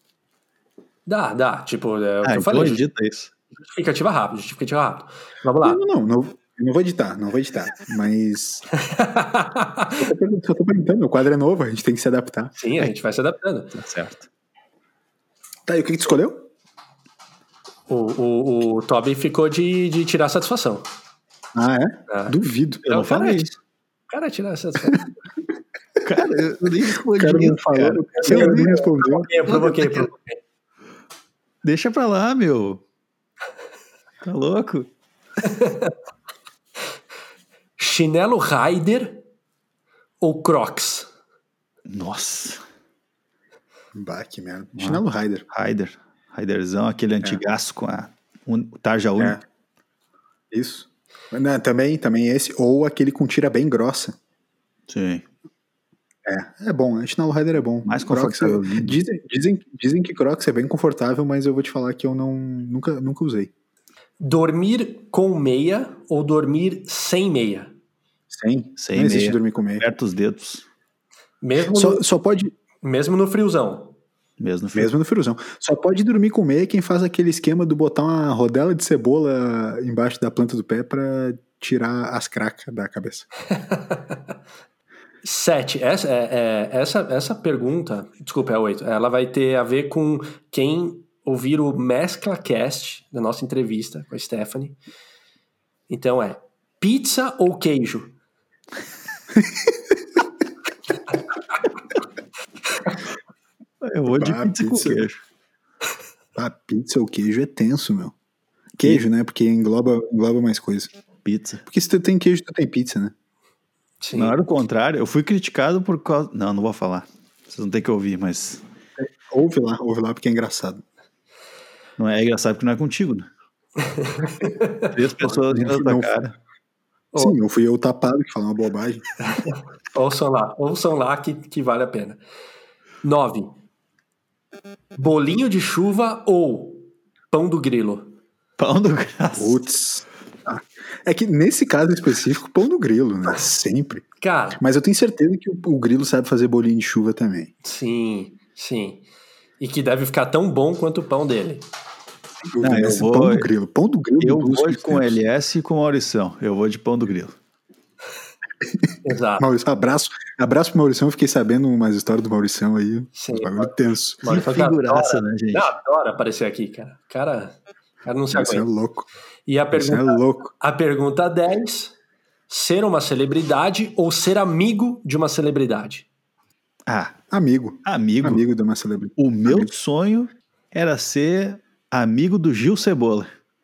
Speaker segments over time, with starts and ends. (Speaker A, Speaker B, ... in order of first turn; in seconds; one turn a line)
Speaker A: 1.1-2.8
Speaker B: 2.2-3.3
Speaker A: 3.7-5.8
Speaker C: 5.6-8.6
Speaker A: 8.8-10.1
Speaker C: 10.0-12.5
Speaker A: 12.6-13.7
Speaker B: 13.7-14.3
Speaker C: 15.7-16.5
Speaker A: 17.9-20.9
Speaker C: 21.5-22.8
Speaker A: 22.1-23.5
Speaker B: 22.9-23.5
Speaker A: 24.1-25.1
Speaker B: 26.0-28.7
Speaker C: 27.1-29.3
Speaker A: 28.2-30.4
Speaker B: 29.5-30.1
Speaker B: 31.6-32.8
Speaker B: 34.2-34.9
Speaker A: 35.4-35.9
Speaker A: 37.8-39.2
Speaker A: 40.2-41.1
Speaker B: 41.9-42.6
Speaker C: 43.9-45.4
Speaker B: 44.8-49.4
Speaker C: 50.5-54.2
Speaker B: 54.9-55.2
Speaker C: 56.2-63.5
Speaker B: 57.9-59.0
Speaker A: 64.2-67.7
Speaker C: 68.3-69.9
Speaker B: 68.8-70.7
Speaker A: 71.4-72.0
Speaker C: 71.7-72.5
Speaker A: 72.8-73.9
Speaker B: 74.4-74.9
Speaker C: 74.7-83.3
Speaker A: 83.5-84.2
Speaker A: 85.2-94.8
Speaker A: 95.9-98.1
Speaker C: 99.4-99.6
Speaker B: 103.8-105.2
Speaker C: 104.1-105.0
Speaker C: 106.3-108.1
Speaker C: 108.8-110.9
Speaker B: 111.2-111.6
Speaker C: 111.7-113.1
Speaker A: 114.0-114.4
Speaker B: 114.1-118.6
Speaker C: 119.0-120.8
Speaker B: 122.0-123.3
Speaker A: 123.8-124.9
Speaker B: 124.9-126.3
Speaker C: 125.4-126.1
Speaker C: 127.2-129.1
Speaker A: 129.2-132.2
Speaker A: 133.0-133.6
Speaker A: 135.0-138.1
Speaker B: 138.6-139.6
Speaker C: 139.4-147.5
Speaker A: 144.2-144.6
Speaker A: 147.6-149.0
Speaker A: 149.6-151.6
Speaker C: 152.4-155.2
Speaker B: 152.6-153.5
Speaker B: 154.2-157.3
Speaker A: 159.0-159.5
Speaker C: 159.4-164.2
Speaker A: 163.2-168.7
Speaker B: 164.2-165.7
Speaker C: 168.3-169.1
Speaker A: 169.5-171.9
Speaker C: 169.7-170.5
Speaker A: 172.5-176.1
Speaker B: 176.9-177.2
Speaker C: 177.3-179.7
Speaker B: 177.8-178.4
Speaker B: 179.2-183.3